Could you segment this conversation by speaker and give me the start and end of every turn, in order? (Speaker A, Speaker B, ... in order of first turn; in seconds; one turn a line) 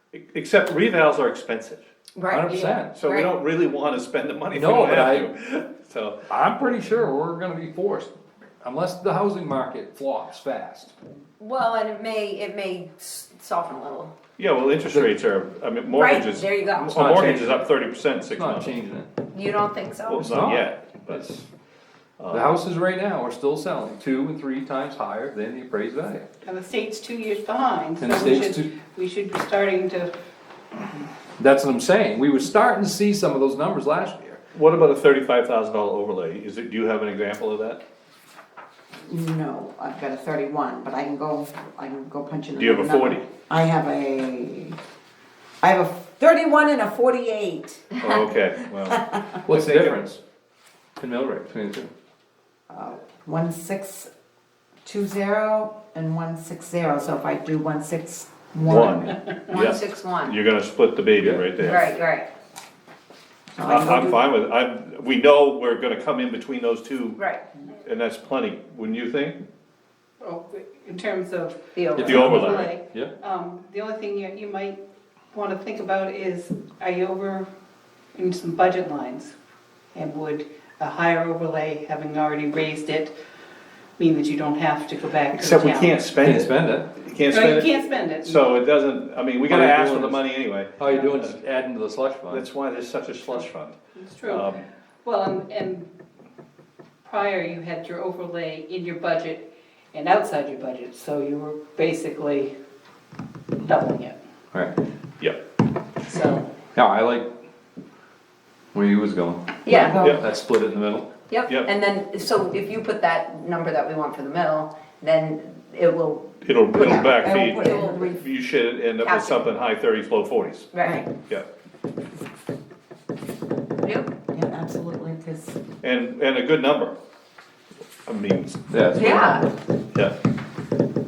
Speaker A: 0.1-1.9
Speaker B: 2.1-3.3
Speaker C: 2.3-3.0
Speaker A: 2.9-6.2
Speaker C: 4.5-5.3
Speaker C: 6.3-10.9
Speaker B: 11.4-14.1
Speaker A: 14.4-18.8
Speaker B: 15.9-17.2
Speaker C: 16.9-17.7
Speaker C: 18.3-19.1
Speaker B: 19.3-20.5
Speaker A: 20.1-21.3
Speaker C: 20.2-21.4
Speaker A: 22.2-22.5
Speaker C: 22.3-26.3
Speaker D: 26.4-30.1
Speaker C: 28.0-28.7
Speaker C: 31.4-34.4
Speaker A: 34.5-37.8
Speaker E: 39.1-44.8
Speaker A: 42.5-43.3
Speaker E: 45.6-49.3
Speaker A: 48.0-50.0
Speaker C: 49.5-50.2
Speaker C: 51.0-51.9
Speaker E: 52.7-54.1
Speaker E: 54.8-59.1
Speaker A: 58.7-61.9
Speaker B: 59.5-60.4
Speaker C: 61.1-61.5
Speaker B: 61.6-62.3
Speaker E: 63.6-64.3
Speaker A: 63.6-67.2
Speaker B: 67.2-67.4
Speaker A: 67.8-69.4
Speaker D: 70.2-74.8
Speaker B: 71.8-72.2
Speaker C: 72.0-73.1
Speaker A: 72.0-72.7
Speaker D: 75.3-77.5
Speaker D: 78.1-79.3
Speaker D: 79.9-83.2
Speaker D: 84.0-86.0
Speaker A: 85.3-91.4
Speaker C: 86.2-86.9
Speaker D: 87.3-88.5
Speaker C: 89.5-92.5
Speaker A: 92.3-94.6
Speaker D: 94.0-94.5
Speaker D: 95.0-95.9
Speaker D: 97.0-102.5
Speaker D: 103.7-104.2
Speaker C: 104.5-104.8
Speaker D: 106.0-106.5
Speaker C: 106.8-107.3
Speaker C: 108.7-111.1
Speaker B: 109.7-110.0
Speaker E: 109.7-110.2
Speaker B: 111.3-118.4
Speaker A: 116.4-120.7
Speaker E: 116.7-118.1
Speaker B: 119.0-119.5
Speaker B: 120.7-121.0
Speaker E: 120.8-121.1
Speaker B: 123.8-124.1
Speaker E: 124.3-125.6
Speaker A: 125.8-127.0
Speaker A: 128.1-129.3
Speaker C: 128.7-129.4
Speaker B: 128.9-129.5